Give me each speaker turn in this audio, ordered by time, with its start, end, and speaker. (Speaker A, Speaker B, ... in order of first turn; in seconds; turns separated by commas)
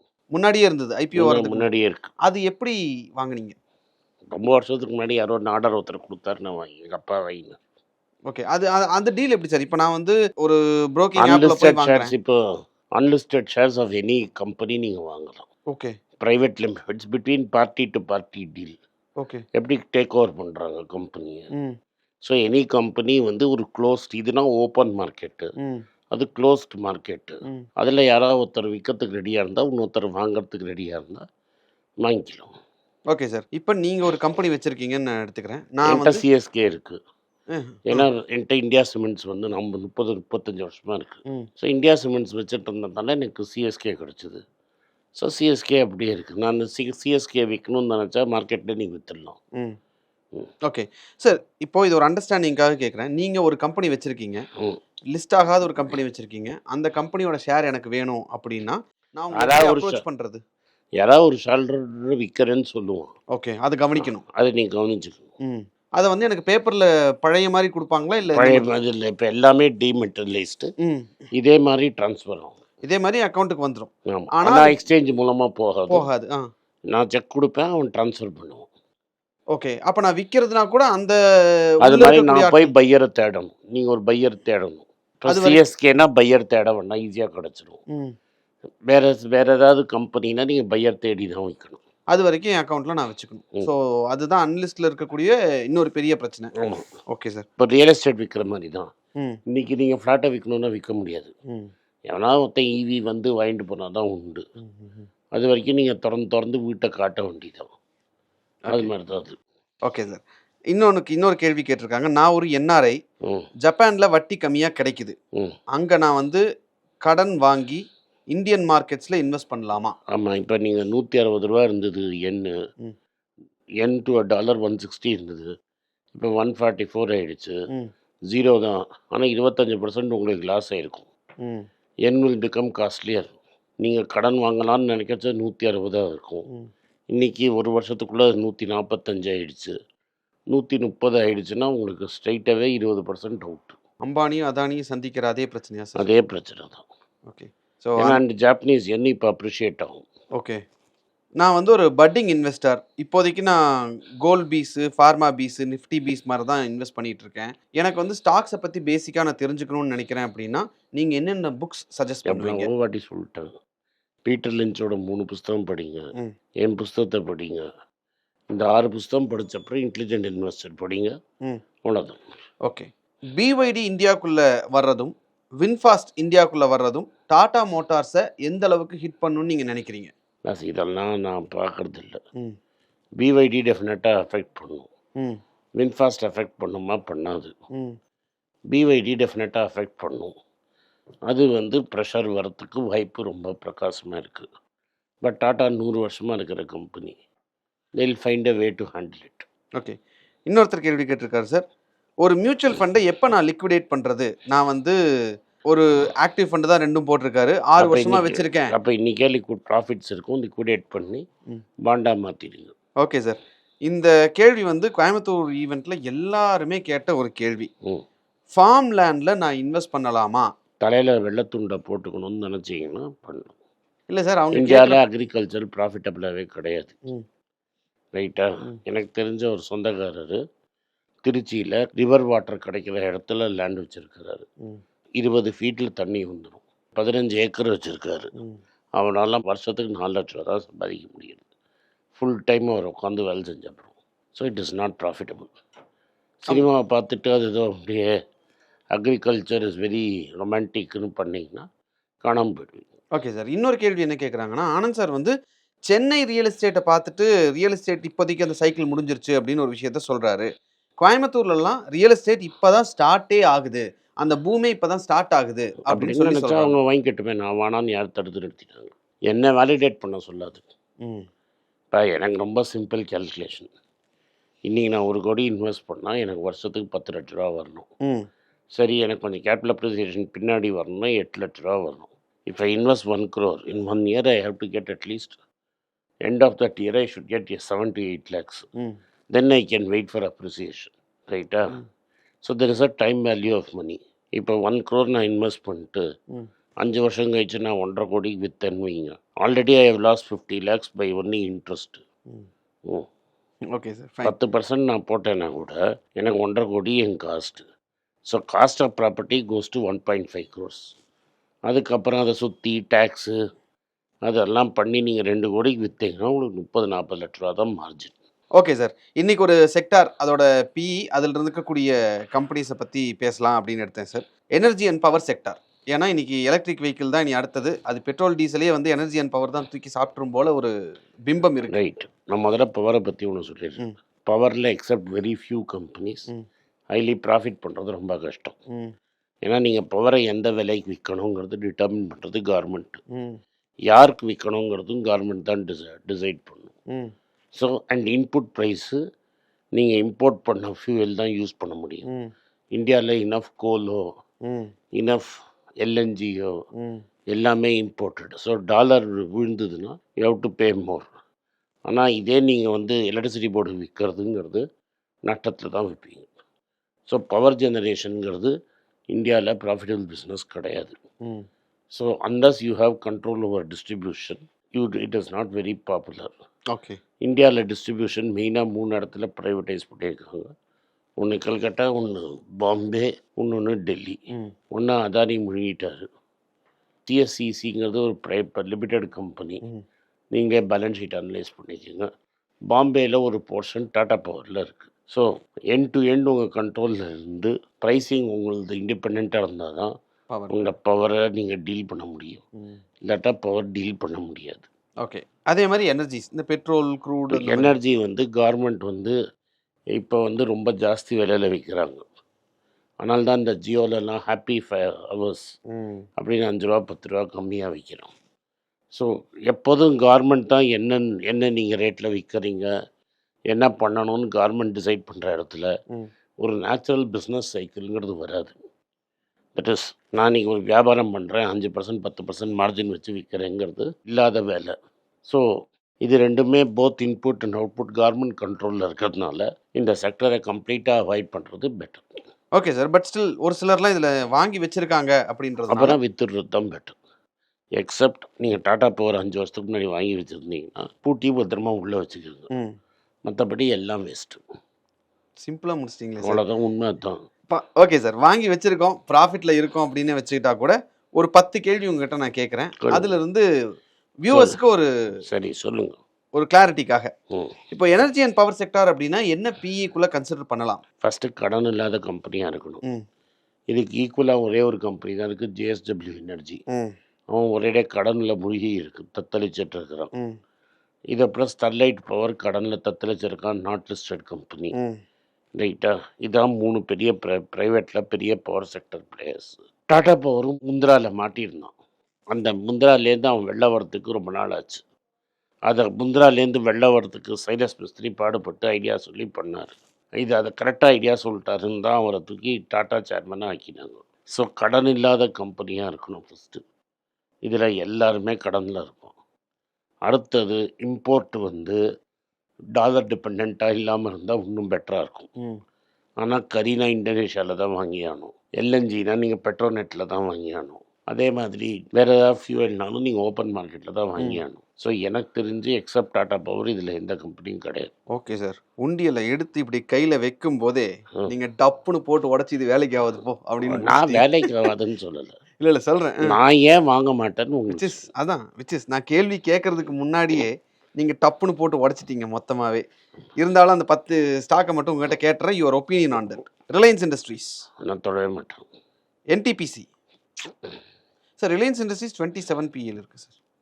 Speaker A: 0.3-1.7, Speaker B: 1.1-2.1, Speaker A: 2.3-3.5, Speaker B: 4.3-7.6, Speaker A: 8.3-12.1, Speaker B: 11.2-12.4, Speaker B: 13.0-15.5, Speaker B: 16.2-18.8, Speaker B: 19.6-21.5, Speaker B: 22.2-25.5, Speaker B: 26.1-31.2, Speaker B: 32.0-32.5, Speaker A: 33.1-36.2, Speaker B: 35.9-37.0, Speaker A: 37.5-38.1, Speaker B: 37.9-44.4, Speaker B: 45.2-49.4, Speaker A: 50.7-54.4, Speaker A: 55.1-60.4, Speaker B: 59.3-60.0, Speaker B: 61.0-63.1, Speaker A: 63.3-64.2, Speaker B: 64.0-65.3, Speaker A: 65.5-68.7, Speaker B: 68.3-70.7, Speaker A: 70.8-71.2, Speaker B: 71.3-72.6, Speaker A: 72.8-74.8, Speaker B: 74.1-76.1, Speaker A: 75.9-76.5, Speaker B: 76.9-78.7, Speaker A: 79.5-81.2, Speaker A: 81.8-82.7, Speaker B: 81.8-87.8, Speaker A: 85.3-85.6, Speaker B: 88.9-91.8, Speaker A: 92.1-96.5, Speaker B: 96.5-96.9, Speaker A: 97.1-97.5, Speaker B: 97.6-98.9, Speaker B: 99.5-101.3, Speaker B: 102.1-104.4, Speaker A: 104.7-105.1, Speaker B: 105.3-107.7, Speaker B: 108.7-109.4, Speaker A: 109.9-113.0, Speaker A: 113.6-115.2, Speaker A: 115.7-116.4, Speaker A: 117.0-120.0, Speaker B: 120.1-122.5, Speaker B: 123.8-125.5, Speaker B: 126.1-127.6, Speaker B: 128.3-131.1, Speaker B: 132.1-136.5, Speaker B: 137.1-139.7, Speaker B: 140.5-143.8, Speaker A: 144.0-146.1, Speaker B: 146.0-146.8, Speaker A: 147.3-148.2, Speaker B: 148.0-150.1, Speaker A: 151.4-153.6, Speaker A: 154.2-162.7, Speaker B: 162.3-163.5, Speaker B: 164.3-167.7, Speaker B: 168.5-171.2, Speaker B: 171.8-172.2, Speaker A: 172.7-180.1, Speaker B: 180.5-182.2, Speaker B: 183.2-184.9, Speaker B: 185.8-187.5, Speaker B: 188.7-190.3, Speaker B: 191.3-194.5, Speaker B: 195.2-197.2, Speaker B: 198.0-199.5, Speaker A: 200.5-201.7, Speaker A: 202.2-205.0, Speaker A: 205.7-208.7, Speaker B: 207.8-211.2, Speaker B: 211.8-212.7, Speaker A: 213.0-217.7, Speaker A: 218.5-220.5, Speaker B: 220.8-223.6, Speaker A: 224.1-225.0, Speaker B: 224.5-227.0, Speaker B: 228.2-230.4, Speaker B: 231.2-234.5, Speaker B: 235.2-238.3, Speaker B: 239.0-241.4, Speaker B: 242.2-245.5, Speaker B: 246.4-248.1, Speaker B: 248.9-251.7, Speaker B: 252.2-252.8, Speaker A: 253.2-255.3, Speaker A: 255.9-260.5, Speaker A: 261.0-266.7, Speaker B: 265.9-270.6, Speaker B: 271.9-273.7, Speaker B: 274.7-277.9, Speaker B: 278.8-285.4, Speaker B: 286.2-288.7, Speaker B: 289.3-291.8, Speaker B: 292.4-296.0, Speaker B: 296.8-302.0, Speaker A: 303.7-304.3, Speaker B: 304.2-307.6, Speaker B: 308.3-310.8, Speaker B: 311.7-313.4, Speaker B: 314.3-318.1, Speaker A: 318.6-330.7, Speaker A: 331.3-331.8, Speaker B: 331.7-336.3, Speaker B: 336.9-338.6, Speaker B: 339.4-343.0, Speaker B: 343.9-346.7, Speaker B: 347.6-349.0, Speaker B: 349.8-352.1, Speaker A: 352.1-352.3, Speaker B: 352.8-354.0, Speaker B: 354.9-356.5, Speaker B: 357.3-361.1, Speaker B: 361.9-364.6, Speaker B: 365.3-366.3, Speaker B: 367.1-368.5, Speaker B: 369.1-371.0, Speaker B: 371.9-376.3, Speaker A: 376.7-377.0, Speaker B: 377.2-380.5, Speaker B: 381.2-384.2, Speaker B: 384.7-386.1, Speaker B: 387.1-389.6, Speaker B: 390.3-392.1, Speaker B: 392.7-399.9, Speaker A: 400.3-400.6, Speaker B: 400.5-402.4, Speaker B: 403.1-404.7, Speaker A: 405.0-407.7, Speaker B: 407.3-409.2, Speaker B: 409.9-412.0, Speaker B: 413.0-415.5, Speaker A: 415.8-416.0, Speaker B: 416.2-418.1, Speaker B: 418.9-422.7, Speaker B: 423.5-425.7, Speaker B: 426.4-428.6, Speaker B: 429.6-434.8, Speaker B: 436.0-442.1, Speaker A: 442.6-446.0, Speaker B: 445.7-447.0, Speaker B: 447.8-452.5, Speaker B: 453.3-454.4, Speaker A: 455.4-456.4, Speaker B: 456.2-457.2, Speaker A: 457.5-463.4, Speaker B: 462.9-463.1, Speaker A: 464.2-464.9, Speaker B: 464.3-464.6, Speaker B: 465.3-466.0, Speaker A: 466.4-467.1, Speaker A: 467.7-470.8, Speaker B: 471.0-472.8, Speaker B: 473.7-476.6, Speaker B: 477.3-480.1, Speaker B: 481.1-484.7, Speaker B: 485.6-491.7, Speaker B: 492.3-494.8, Speaker B: 495.7-506.6, Speaker B: 507.5-509.1, Speaker B: 510.1-511.8, Speaker B: 512.8-515.3, Speaker B: 516.2-527.9, Speaker A: 528.2-534.3, Speaker B: 533.7-535.4, Speaker A: 535.6-536.2, Speaker B: 536.2-538.0, Speaker A: 537.7-542.8, Speaker A: 543.4-547.6, Speaker B: 547.8-548.7, Speaker A: 549.3-549.9, Speaker A: 551.4-553.4